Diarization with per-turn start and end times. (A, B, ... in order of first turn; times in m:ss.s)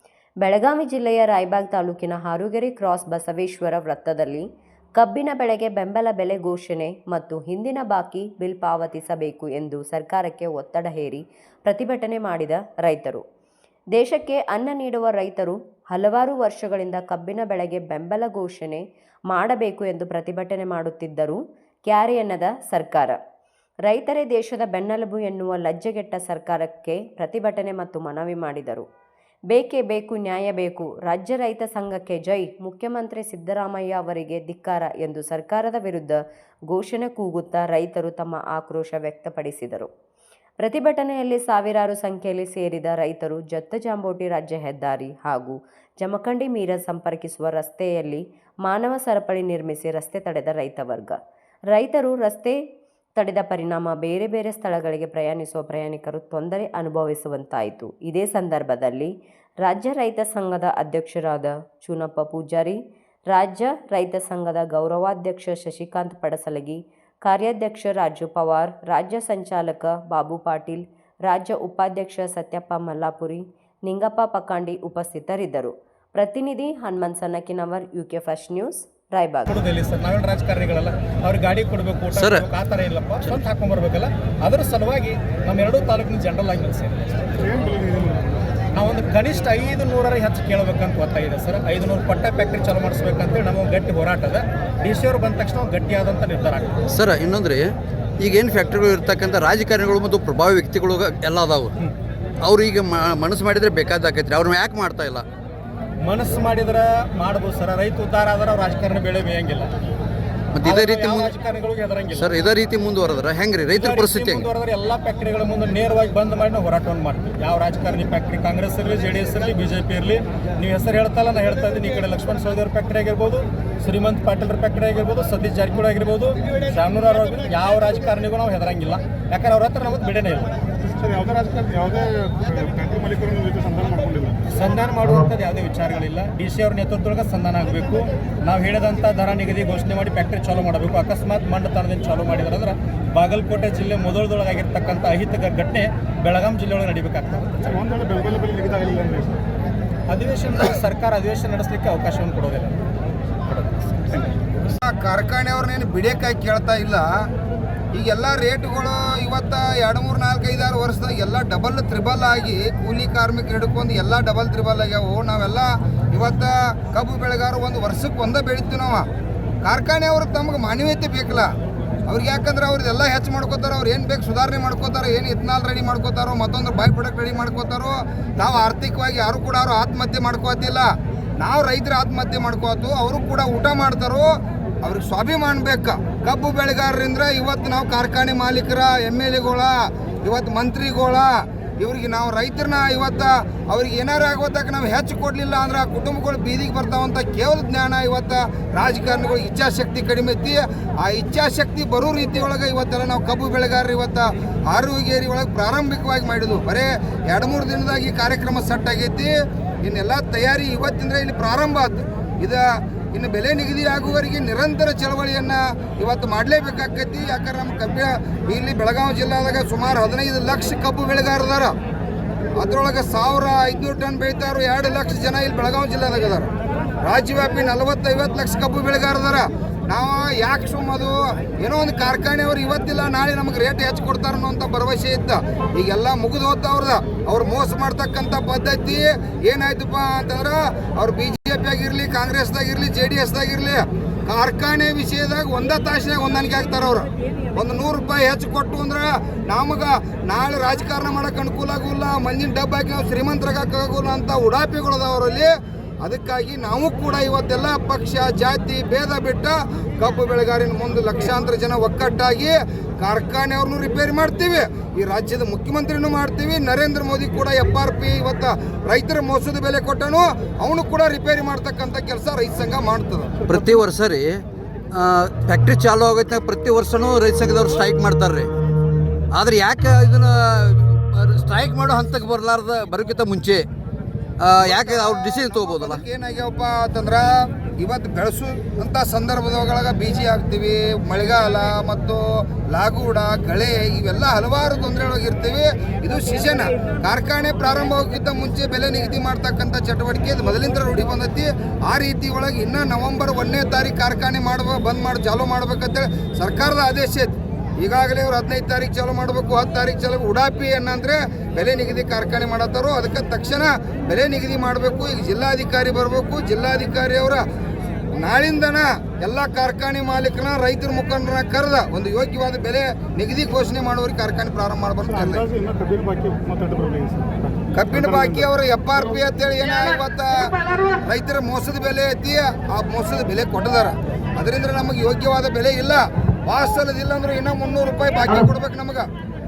0:00.4-0:04.5 A
0:05.0-0:13.2 A
0:13.9-0:23.2 A
0:23.9-0:28.9 A
0:29.5-0:36.2 A
0:36.7-0:39.9 A
0:40.6-0:51.2 A
0:51.7-0:52.6 A
0:53.2-1:02.8 A
1:03.3-1:19.5 A
1:19.5-1:27.3 B
1:22.1-1:22.5 C
1:27.4-1:28.4 D
1:28.7-1:36.8 B
1:36.9-1:41.7 C
1:42.4-1:45.2 C
1:46.0-1:49.7 B
1:50.5-1:51.3 C
1:50.6-1:52.4 B
1:52.1-1:54.5 C
1:53.7-2:10.5 B
2:10.8-2:14.4 D
2:14.5-2:27.7 B
2:27.6-2:29.4 D
2:30.1-2:32.8 B
2:33.5-2:34.3 B
2:34.8-2:37.1 E
2:37.9-2:49.0 E
2:49.6-2:51.5 E
2:52.1-3:04.3 E
3:04.8-3:41.7 E
3:42.6-3:46.5 E
3:47.0-4:33.5 E
4:33.5-4:38.5 C
4:39.3-4:43.7 C
4:44.4-4:46.0 C
4:44.6-5:17.4 E
5:18.2-5:25.5 E
5:25.1-5:28.4 D
5:27.8-5:39.1 E